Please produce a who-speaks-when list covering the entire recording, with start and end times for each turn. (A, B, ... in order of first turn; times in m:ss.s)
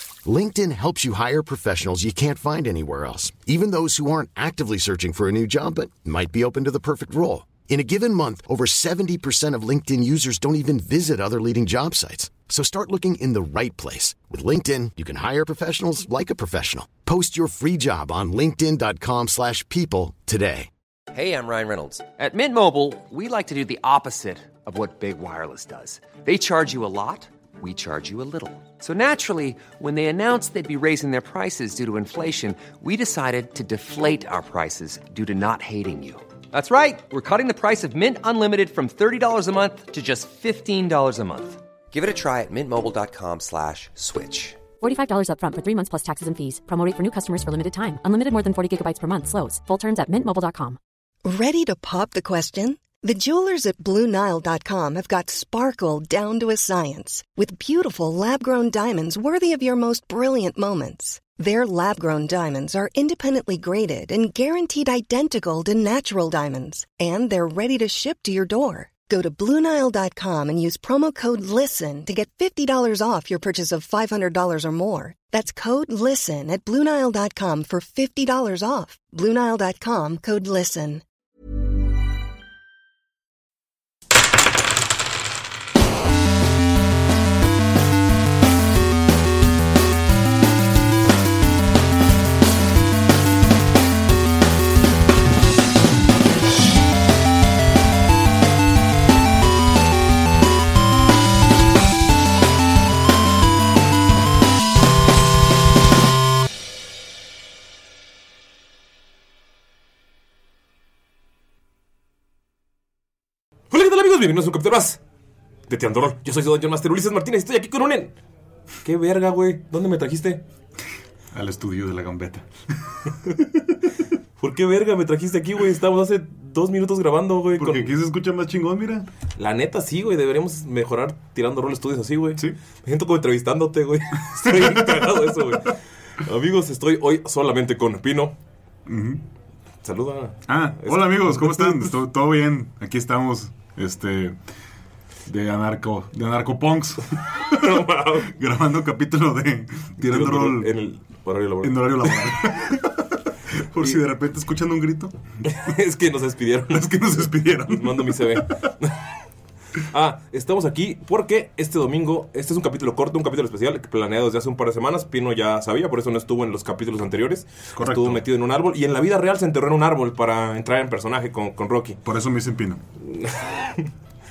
0:00.2-0:20.7 A
0:21.1-0:44.6 B
0:44.8-0:50.8 C
0:51.2-1:21.0 D
1:53.7-1:55.0 E
1:55.7-1:58.1 E
1:58.8-2:00.4 E
2:01.3-2:03.6 F
2:04.4-2:07.9 E
2:07.6-2:09.1 F
2:09.4-2:18.4 E
2:14.4-2:15.5 F
2:18.8-2:19.2 F
2:19.8-2:21.9 E
2:20.5-2:24.4 F
2:25.2-2:30.7 F
2:27.4-2:28.3 E
2:30.0-2:32.7 E
2:31.6-2:35.2 F
2:35.4-2:39.1 E
2:36.7-2:38.5 F
2:39.8-2:52.0 E
2:47.7-2:48.2 F
2:52.0-2:52.8 F
2:53.0-2:53.9 E